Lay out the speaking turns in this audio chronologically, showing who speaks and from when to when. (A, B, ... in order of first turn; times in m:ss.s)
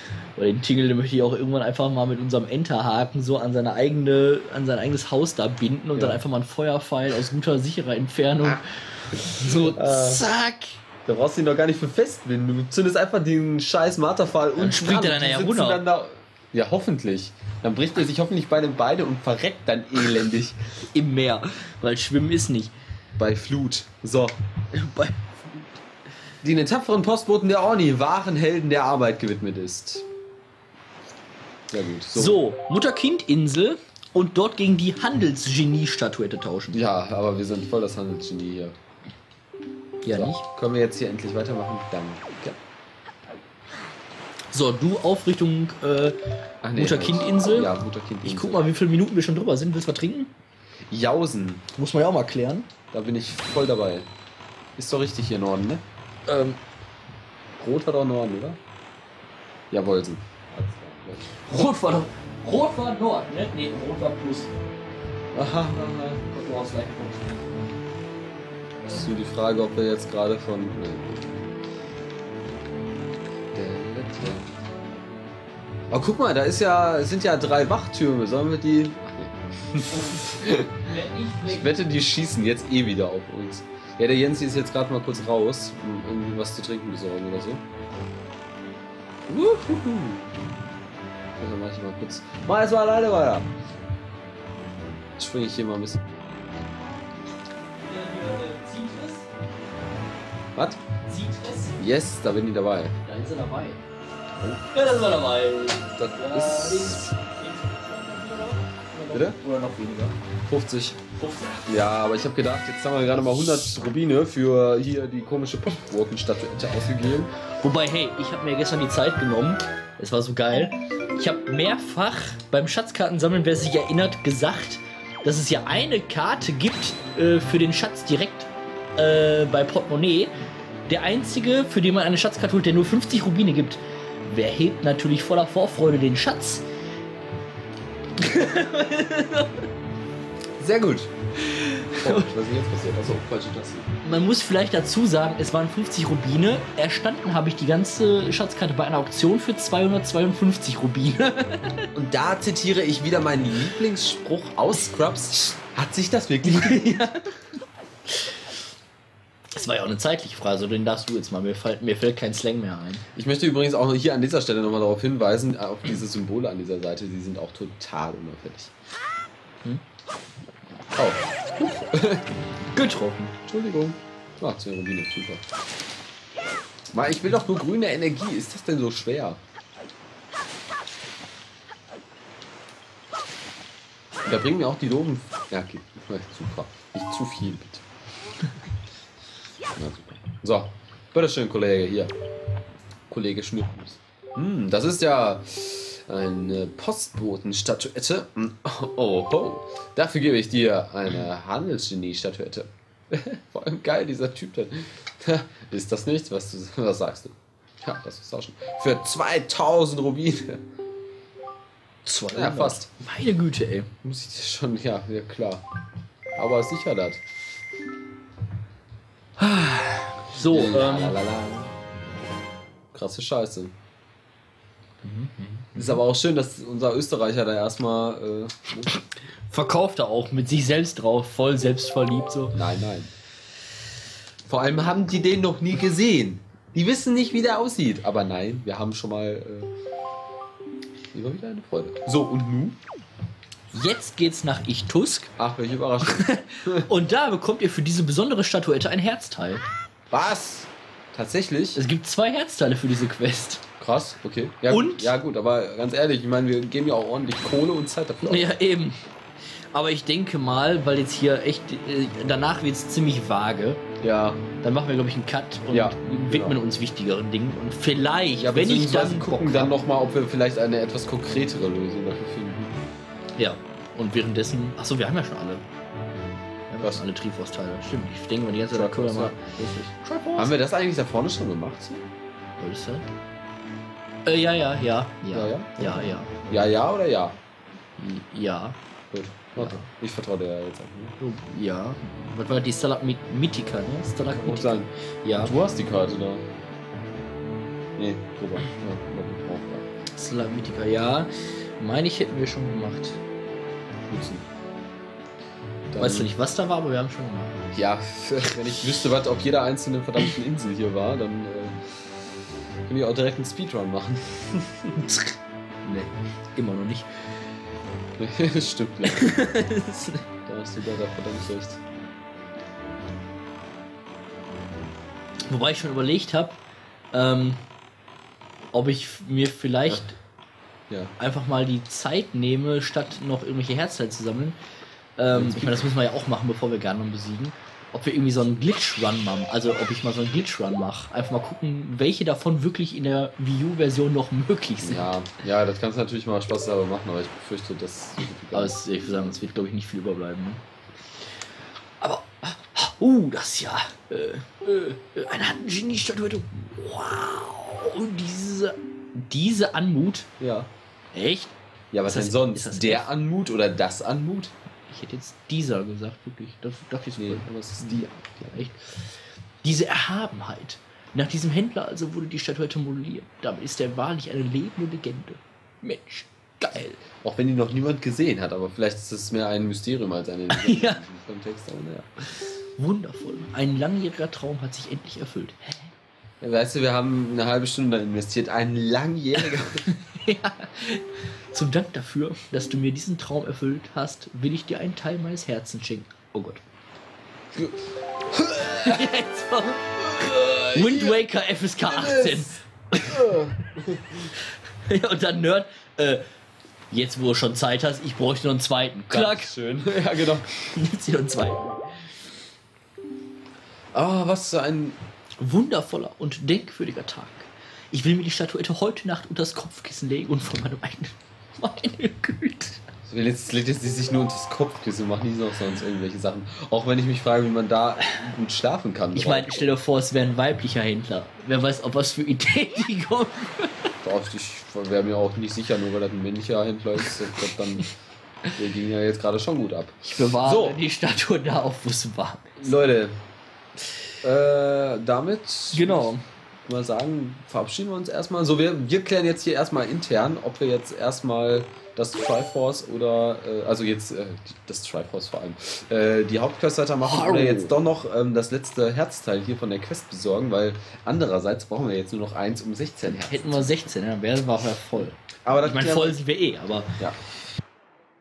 0:00.4-0:10.8 A
0:06.0-0:06.2 B
0:09.6-0:10.2 B
0:11.0-0:20.6 B
0:14.6-0:15.8 A
0:20.9-0:22.7 A
0:23.2-0:24.4 B
0:24.7-0:25.8 A
0:26.4-0:30.1 B
0:31.7-0:32.4 B
0:32.2-0:36.8 A
0:36.7-0:38.8 B
0:40.0-0:40.4 A
0:40.1-0:42.6 B
0:44.5-0:46.2 A
0:46.6-0:48.6 B
0:46.8-0:50.3 A
0:50.9-0:51.7 B
0:51.8-0:52.7 A
0:52.9-0:54.1 B
0:54.8-0:55.8 B
0:56.3-0:56.6 A
0:57.6-0:58.6 B
0:59.7-1:01.4 B
1:01.5-1:04.6 A
1:05.3-1:06.3 B
1:06.3-1:07.6 A
1:08.8-1:11.4 B
1:13.5-1:14.6 B
1:15.9-1:20.8 B
1:20.8-1:21.8 A
1:21.4-1:27.6 B
1:29.3-1:30.3 B
1:31.4-1:33.5 B
1:35.2-1:36.5 B
1:37.9-1:39.3 A
1:41.0-1:41.8 A
1:41.8-1:43.0 B
1:43.0-1:43.8 A
1:44.6-1:50.2 A
1:46.0-1:47.2 B
1:50.5-1:51.0 B
1:51.2-1:51.7 A
1:51.7-1:57.3 B
1:57.6-2:10.3 A
2:10.9-2:16.6 A
2:18.2-2:19.7 A
2:20.6-2:21.1 B
2:21.4-2:22.3 A
2:22.0-2:23.9 B
2:24.0-2:31.9 A
2:32.0-2:37.1 B
2:36.4-2:37.3 A
2:38.1-2:38.4 A
2:39.5-2:43.0 A
2:43.1-2:48.7 B
2:51.0-2:52.3 B
2:52.7-2:53.4 A
2:53.5-2:55.4 B
2:56.9-2:59.4 B
3:04.2-3:07.8 B
3:09.7-3:12.1 B
3:13.1-3:30.6 B
3:32.0-3:33.9 A
3:32.3-3:32.9 B
3:34.0-3:35.6 B
3:36.4-3:37.2 B
3:39.4-3:41.2 A
3:40.4-3:41.8 B
3:42.9-3:43.8 B
3:45.0-3:46.0 A
3:45.8-3:49.0 B
3:49.5-3:52.6 A
3:52.5-3:53.1 B
3:54.4-3:59.7 B
4:01.1-4:02.8 B
4:03.7-4:05.3 A
4:05.4-4:06.9 B
4:06.0-4:09.6 A
4:10.1-4:11.8 B
4:11.8-4:13.6 A
4:13.8-4:18.5 B
4:14.7-4:15.1 A
4:18.2-4:19.0 A
4:19.7-4:23.8 A
4:24.0-4:24.4 B
4:24.6-4:29.7 A
4:25.7-4:26.6 B
4:28.4-4:32.8 B
4:33.4-4:35.6 A
4:36.2-4:37.0 B
4:36.7-4:40.5 A
4:38.7-4:42.0 B
4:42.6-4:43.1 A
4:44.3-4:46.4 A
4:45.3-4:47.4 B
4:48.0-4:48.8 A
4:49.1-4:51.2 B
4:49.6-4:49.9 A
4:51.2-4:55.5 A
4:54.3-4:56.5 B
4:58.0-4:59.9 B
5:00.2-5:03.2 A
5:04.1-5:04.4 B
5:05.9-5:06.3 B
5:06.0-5:07.7 A
5:07.7-5:11.8 B
5:12.9-5:15.0 B
5:15.0-5:17.1 A
5:18.2-5:19.5 B
5:19.1-5:20.2 A
5:20.5-5:21.8 B
5:25.5-5:26.6 A
5:27.1-5:27.6 A
5:28.7-5:30.2 A
5:31.2-5:34.6 A
5:35.2-5:45.1 A
5:35.3-5:35.9 B
5:44.8-5:48.8 B
5:48.5-5:50.6 A
5:52.0-6:00.3 A
6:00.4-6:00.7 B
6:01.1-6:01.5 A
6:01.9-6:04.5 B
6:02.1-6:03.1 A
6:04.9-6:08.8 A
6:07.2-6:08.6 B
6:09.6-6:17.0 A
6:17.2-6:22.1 B
6:20.5-6:21.0 A
6:22.8-6:25.9 A
6:26.4-6:29.8 B
6:29.8-6:36.6 A
6:37.5-6:39.1 B
6:38.6-6:43.3 A
6:39.7-6:41.2 B
6:41.8-6:44.3 B
6:44.8-6:46.2 A
6:46.9-6:49.5 A
6:49.1-6:50.5 B
6:50.6-6:51.8 A
6:53.9-6:55.0 B
6:55.4-7:02.8 A
7:03.1-7:09.7 B
7:09.1-7:13.9 A
7:14.0-7:17.9 B
7:18.5-7:20.8 B
7:20.0-7:22.7 A
7:22.6-7:23.2 B
7:24.2-7:43.9 B
7:25.7-7:26.2 A
7:37.0-7:37.8 A
7:43.1-7:47.0 A
7:45.4-7:46.2 B